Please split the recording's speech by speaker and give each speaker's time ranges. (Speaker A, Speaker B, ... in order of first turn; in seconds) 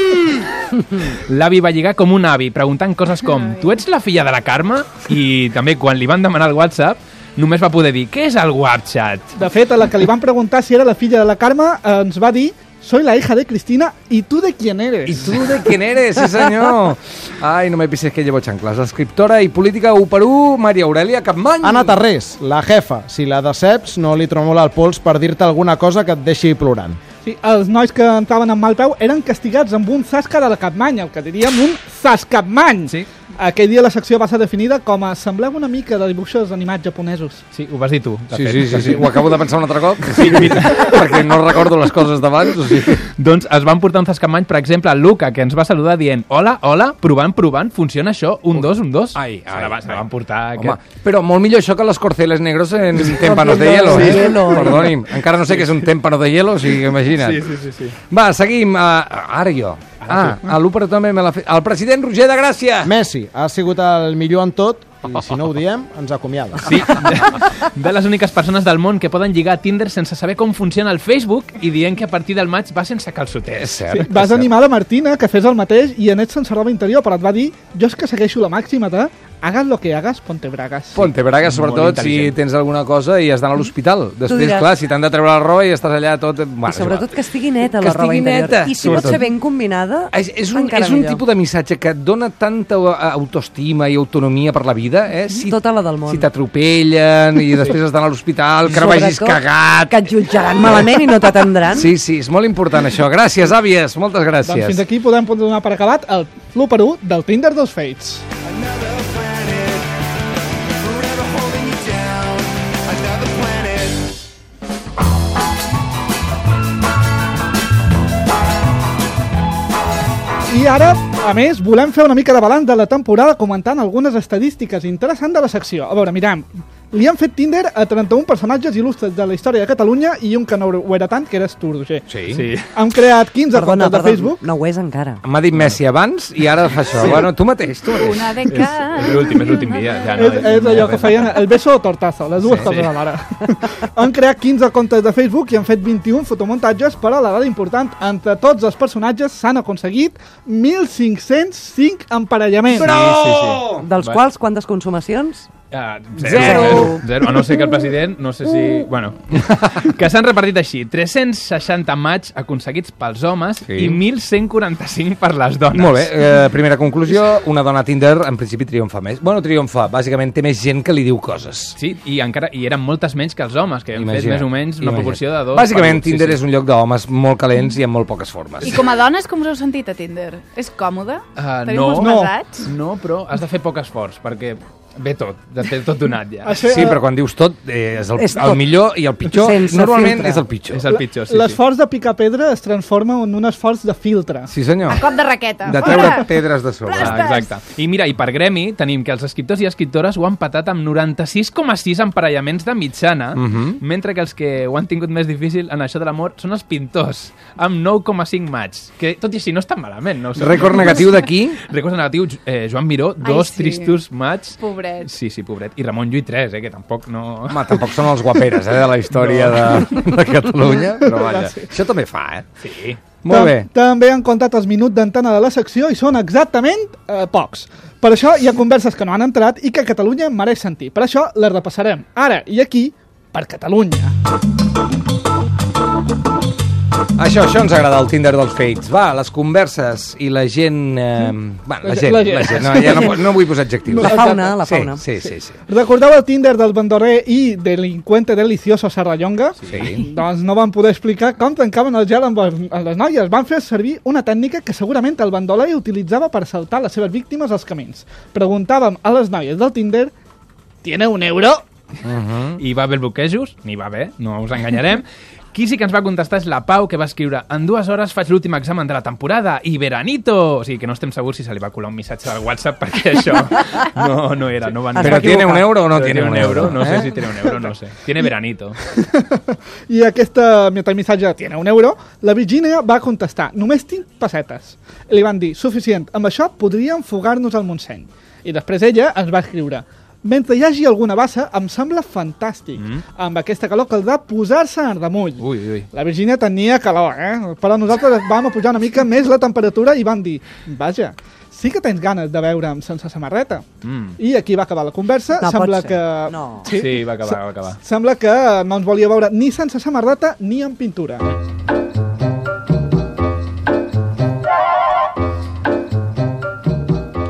Speaker A: 0.9-9.3, 37.5-39.2, 40.1-41.0, 43.1-50.8, 57.1-58.0, 60.0-60.4, 66.6-73.8, 81.4-82.3, 132.3-132.7, 138.5-141.4, 142.6-142.9, 152.8-154.2, 155.7-166.1, 171.8-176.4, 181.3-186.6, 190.7-191.6, 197.0-217.8, 219.1-219.7, 222.6-223.0, 249.6-249.9, 262.6-278.8, 292.8-293.0, 295.4-295.9, 303.8-304.2, 306.7-307.8
Speaker B: 3.2-3.8, 137.9-139.8, 178.6-182.7, 194.9-196.3, 196.9-197.5, 213.2-214.0, 214.6-215.1
Speaker C: 9.3-15.3, 27.2-37.4, 73.9-81.0, 104.4-108.2, 120.5-132.1, 132.7-134.5, 140.2-152.9, 182.0-182.3, 186.4-187.0, 190.9-194.5, 195.9-196.2, 221.0-221.7, 223.3-234.1, 241.8-244.6, 245.2-260.1, 260.8-261.6, 278.9-303.6, 304.2-311.4
Speaker D: 15.0-21.9, 38.3-43.0, 49.1-57.5, 58.1-62.9, 73.5-74.5, 80.9-87.2, 87.7-89.2, 90.1-100.9, 101.7-104.8, 132.1-132.4, 135.2-138.4, 142.4-142.7, 152.9-153.9, 156.2-156.9, 163.6-164.0, 165.7-171.8, 173.9-178.8, 186.7-190.8, 194.5-195.1, 195.7-197.1, 203.3-203.8, 210.3-211.6, 217.5-222.4, 223.2-223.7, 237.2-245.6, 249.7-250.1, 262.0-262.6, 275.0-277.1
Speaker E: 21.6-27.0, 62.8-66.8
Speaker F: 53.1-54.9, 84.3-84.7, 86.7-91.2, 95.3-96.3, 98.6-101.9, 133.5-135.2, 153.8-155.5, 156.2-157.1, 188.2-190.4, 244.0-245.0, 274.9-275.8, 305.3-306.7